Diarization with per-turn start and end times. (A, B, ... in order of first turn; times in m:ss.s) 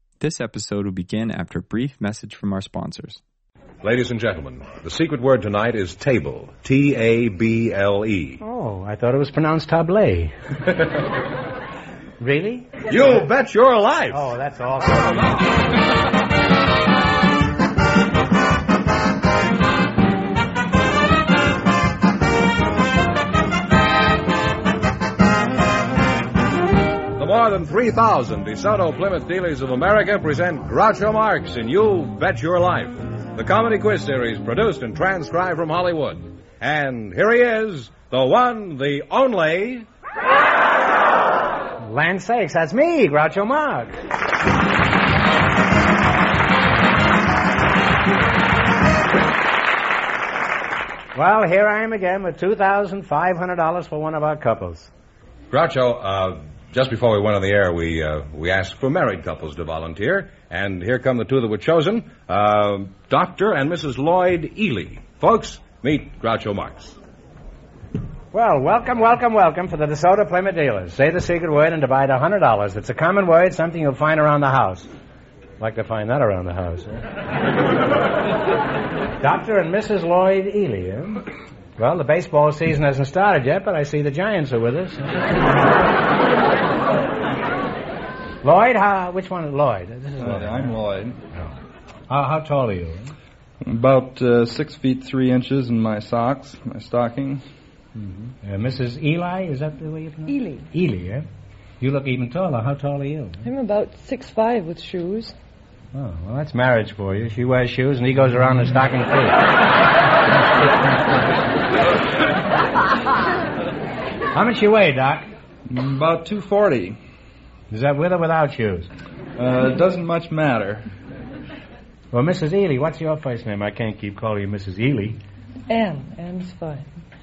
0:00.2-0:03.2 A
0:03.8-0:08.4 B
0:08.4-0:10.3 C
0:12.2-0:12.8 C
0:12.9-0:14.3 B
0:14.1-0:15.4 C
0:27.2-0:39.9 B
0:41.8-0:44.0 C
0:51.2-0:54.9 C
0:55.5-1:07.0 B
1:08.3-1:14.9 C
1:15.6-1:17.0 C
1:19.2-1:21.2 C
1:21.8-1:25.3 C
1:28.4-1:30.8 C
1:30.2-1:31.2 D
1:32.1-1:33.1 C
1:33.6-1:37.4 D
1:38.0-1:41.3 C
1:40.3-1:40.7 E
1:41.8-1:43.4 C
1:43.4-1:45.4 E
1:45.9-1:49.4 C
1:54.3-1:55.3 C
1:55.7-1:57.0 D
1:57.7-1:58.9 C
1:59.4-2:00.8 D
2:02.1-2:05.2 C
2:05.7-2:06.9 E